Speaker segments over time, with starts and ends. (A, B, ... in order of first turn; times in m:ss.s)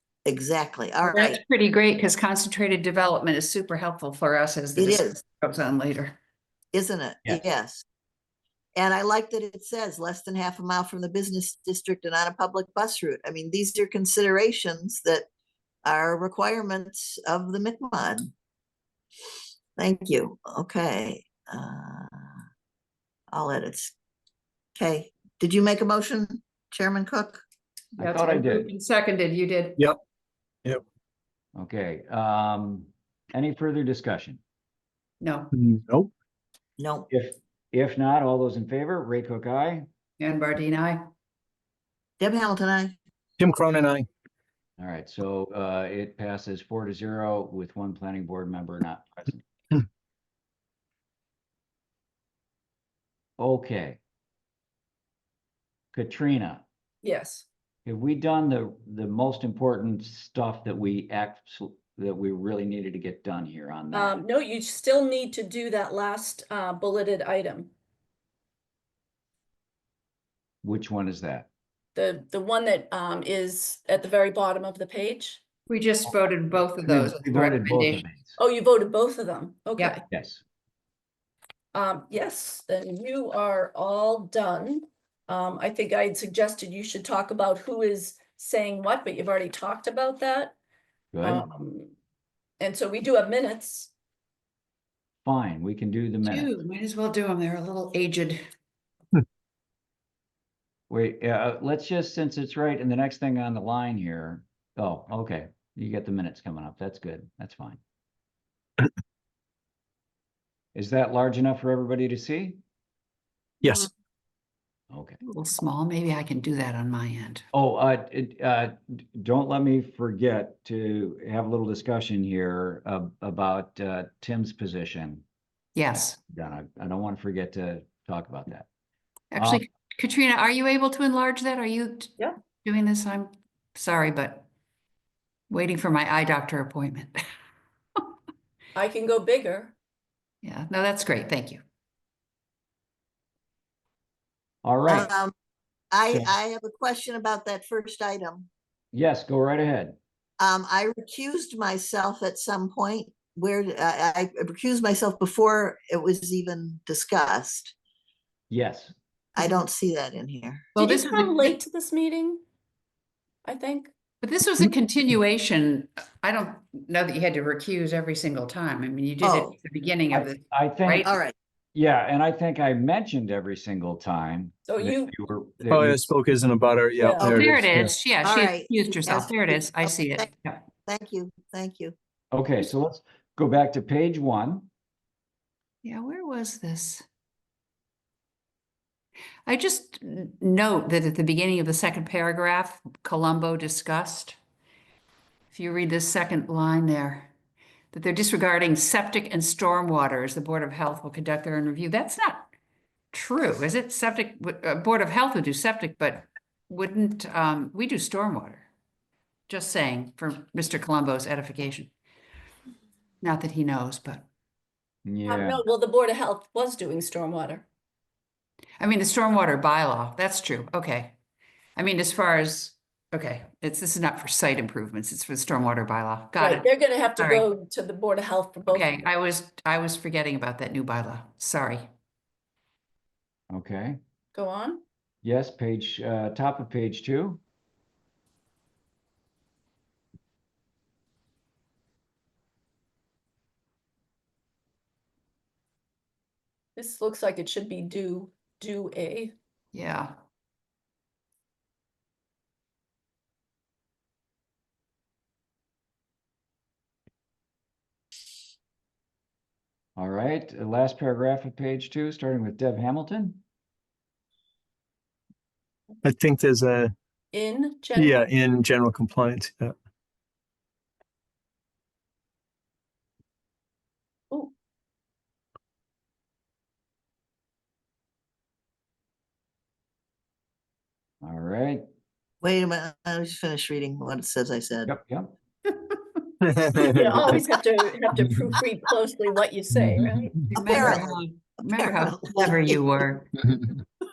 0:00.3-0:01.4 A
0:01.1-0:06.2 B
0:04.8-0:05.2 A
0:06.7-0:07.8 A
0:08.8-0:15.2 A
0:15.8-0:18.3 A
0:19.8-0:22.4 A
0:23.3-0:23.9 A
0:24.8-0:27.4 A
0:28.0-0:29.8 B
0:28.0-0:28.7 C
0:31.6-0:34.4 C
0:35.2-0:35.5 B
0:35.5-0:36.1 D
0:36.8-0:37.1 A
0:37.1-0:39.9 C
0:40.2-0:41.1 B
0:42.2-0:43.0 A
0:43.4-0:44.1 D
0:44.8-0:49.5 C
0:53.4-0:54.0 C
0:55.9-0:56.7 C
0:57.0-0:57.5 E
0:57.9-1:04.2 C
1:03.9-1:07.7 E
1:10.6-1:11.5 C
1:12.0-1:15.4 E
1:15.7-1:18.0 B
1:16.9-1:18.4 C
1:18.4-1:20.0 E
1:20.1-1:20.4 C
1:21.7-1:30.6 E
1:31.1-1:31.5 C
1:31.2-1:31.9 E
1:32.6-1:33.9 E
1:35.2-1:36.5 C
1:36.2-1:38.4 B
1:40.9-1:47.8 C
1:50.8-1:52.6 C
1:53.6-1:53.9 D
1:54.9-1:55.2 C
1:55.2-1:57.4 B
1:57.5-2:05.2 C
2:05.8-2:06.2 B
2:06.3-2:08.7 C
2:09.3-2:12.1 B
2:09.4-2:09.6 C
2:12.6-2:14.5 B
2:15.5-2:17.2 B
2:18.8-2:19.8 E
2:20.4-2:21.6 B
2:24.6-2:25.1 C
2:24.9-2:25.3 A
2:25.9-2:28.5 A
2:28.9-2:30.0 C
2:30.4-2:37.7 A
2:38.5-2:38.9 C
2:39.4-2:40.7 A
2:40.8-2:41.6 B
2:40.8-2:42.4 E
2:43.4-2:43.9 E
2:44.2-2:51.1 B
2:49.2-2:49.6 A
2:50.1-2:51.1 C
2:51.0-2:51.3 A
2:51.8-2:56.0 C
2:54.7-2:55.1 E
2:55.7-2:57.9 D
2:57.0-2:57.3 E
2:57.2-2:57.6 A
2:57.2-3:00.6 B
2:58.2-3:00.3 A
3:00.9-3:02.0 A
3:02.3-3:04.7 C
3:05.8-3:07.0 B
3:09.5-3:14.4 B
3:15.5-3:17.3 B
3:17.9-3:22.5 B
3:23.1-3:28.7 B
3:29.5-3:31.9 B
3:33.2-3:34.3 B
3:35.1-3:35.6 C
3:35.3-3:37.7 E
3:38.8-3:41.2 B
3:41.8-3:47.5 B
3:46.4-3:48.9 E
3:48.7-3:51.9 B
3:53.5-3:54.0 C
3:54.3-3:54.8 E
3:55.2-3:57.4 C
4:06.8-4:09.3 E
4:09.7-4:10.1 B
4:20.0-4:23.4 C
4:26.0-4:26.9 D
4:27.3-4:28.2 E
4:28.0-4:29.8 D
4:41.2-4:41.8 C
4:42.4-4:44.9 A
4:44.9-4:45.3 C
4:46.4-4:47.4 D
4:46.8-4:50.4 E
4:50.5-4:53.3 B
4:50.5-4:52.8 A